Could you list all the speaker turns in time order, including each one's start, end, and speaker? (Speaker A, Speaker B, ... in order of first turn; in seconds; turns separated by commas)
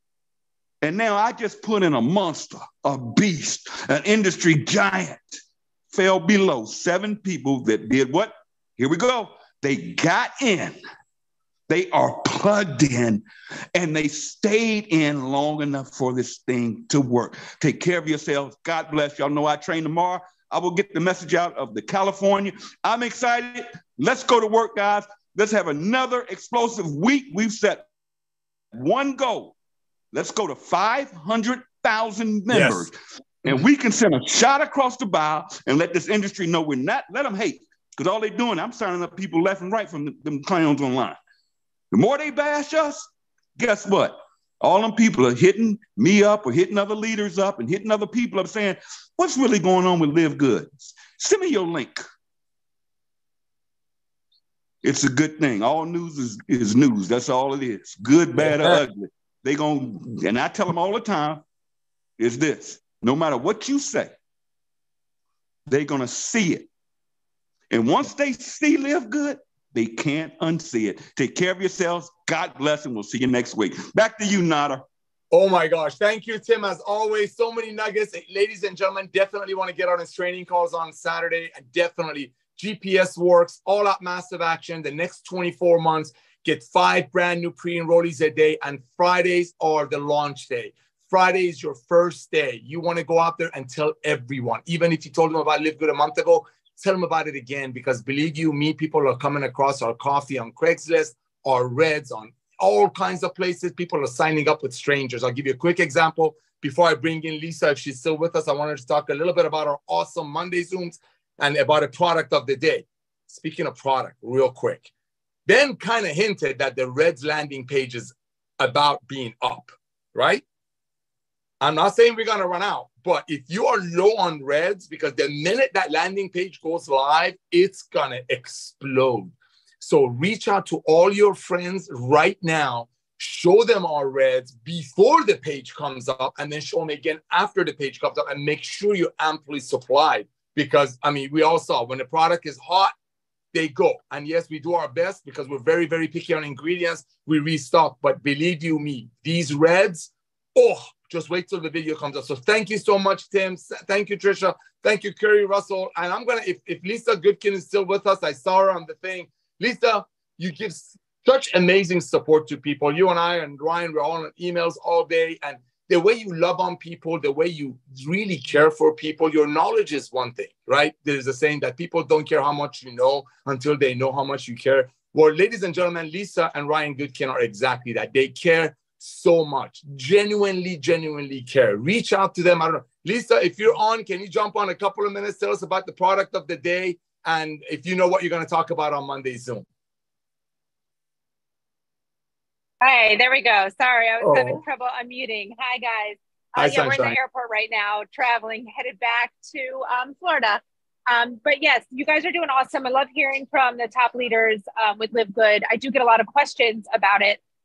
Speaker A: 0.8-5.4, Speaker A: 5.9-10.8, Speaker A: 11.7-27.9, Speaker A: 28.7-29.5, Speaker A: 30.1-41.2, Speaker B: 32.5-32.9, Speaker A: 41.9-52.0, Speaker A: 54.8-61.4, Speaker B: 58.4-58.8, Speaker A: 62.2-64.1, Speaker A: 65.7-66.7, Speaker A: 67.7-74.8, Speaker B: 75.3-114.9, Speaker B: 115.5-120.4, Speaker B: 121.6-142.9, Speaker B: 143.5-189.7, Speaker C: 192.8-207.4, Speaker B: 194.2-194.6, Speaker B: 196.6-197.2